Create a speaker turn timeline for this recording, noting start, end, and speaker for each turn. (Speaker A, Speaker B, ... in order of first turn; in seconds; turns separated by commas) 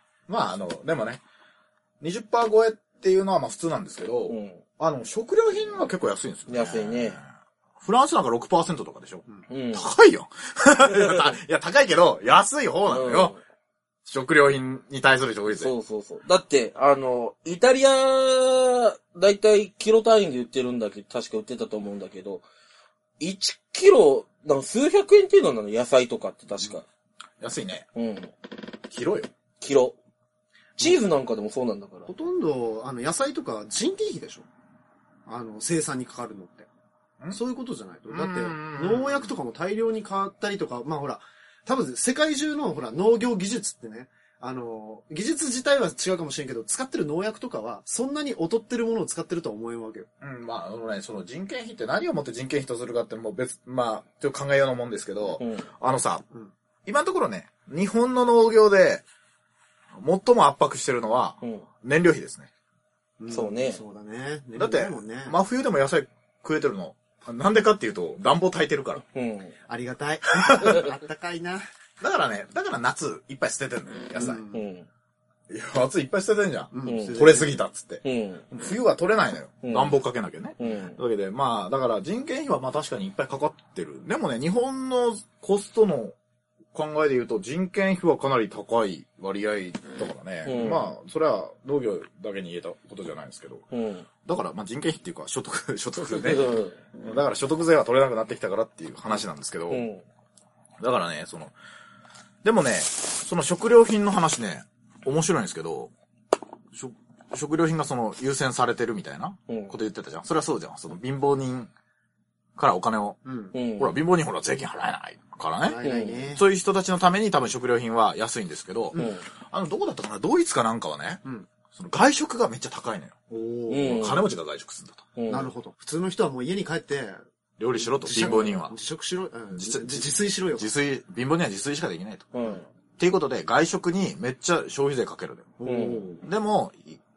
Speaker A: 0.3-1.2, Speaker A: 2.0-7.2, Speaker B: 4.3-4.6, Speaker B: 6.5-7.2, Speaker A: 7.8-13.3, Speaker B: 9.5-9.9, Speaker B: 10.9-11.3, Speaker B: 12.9-13.4, Speaker A: 14.1-15.7, Speaker B: 15.6-22.4, Speaker B: 23.2-26.8, Speaker A: 27.4-27.9, Speaker B: 27.9-28.3, Speaker A: 28.9-29.3, Speaker B: 29.6-30.0, Speaker B: 30.8-32.1, Speaker C: 32.1-34.5, Speaker C: 35.3-36.7, Speaker C: 37.3-50.1, Speaker A: 38.1-39.3, Speaker A: 50.2-56.2, Speaker B: 55.4-55.7, Speaker A: 56.9-59.0, Speaker A: 60.0-62.5, Speaker C: 63.2-65.4, Speaker B: 63.3-63.8, Speaker A: 64.6-69.0, Speaker B: 69.1-69.5, Speaker C: 69.7-71.7, Speaker A: 70.3-70.9, Speaker A: 72.0-74.4, Speaker C: 74.2-74.7, Speaker B: 74.5-74.9, Speaker A: 75.5-86.2, Speaker C: 76.7-77.6, Speaker B: 76.9-77.5, Speaker B: 78.0-78.5, Speaker B: 79.7-80.0, Speaker B: 80.6-81.0, Speaker A: 86.7-93.7, Speaker B: 90.5-90.9, Speaker B: 93.7-94.1, Speaker A: 94.2-99.8, Speaker B: 96.0-96.8, Speaker B: 99.7-100.0, Speaker A: 100.8-101.5, Speaker A: 102.4-105.9, Speaker A: 106.7-111.7, Speaker B: 109.5-109.7, Speaker A: 112.6-113.2, Speaker C: 113.2-113.5, Speaker B: 113.5-114.0, Speaker A: 113.8-115.8, Speaker C: 115.6-116.5, Speaker B: 115.8-116.2, Speaker A: 116.3-123.2, Speaker B: 118.9-119.2, Speaker C: 123.3-124.2, Speaker B: 123.7-124.2, Speaker A: 123.9-125.1, Speaker B: 125.2-125.5, Speaker C: 125.3-127.2, Speaker A: 127.6-128.8, Speaker C: 127.8-130.7, Speaker B: 128.2-128.5, Speaker A: 129.5-132.3, Speaker B: 132.3-132.7, Speaker A: 133.0-135.5, Speaker C: 135.6-136.2, Speaker B: 135.7-136.1, Speaker A: 136.2-137.0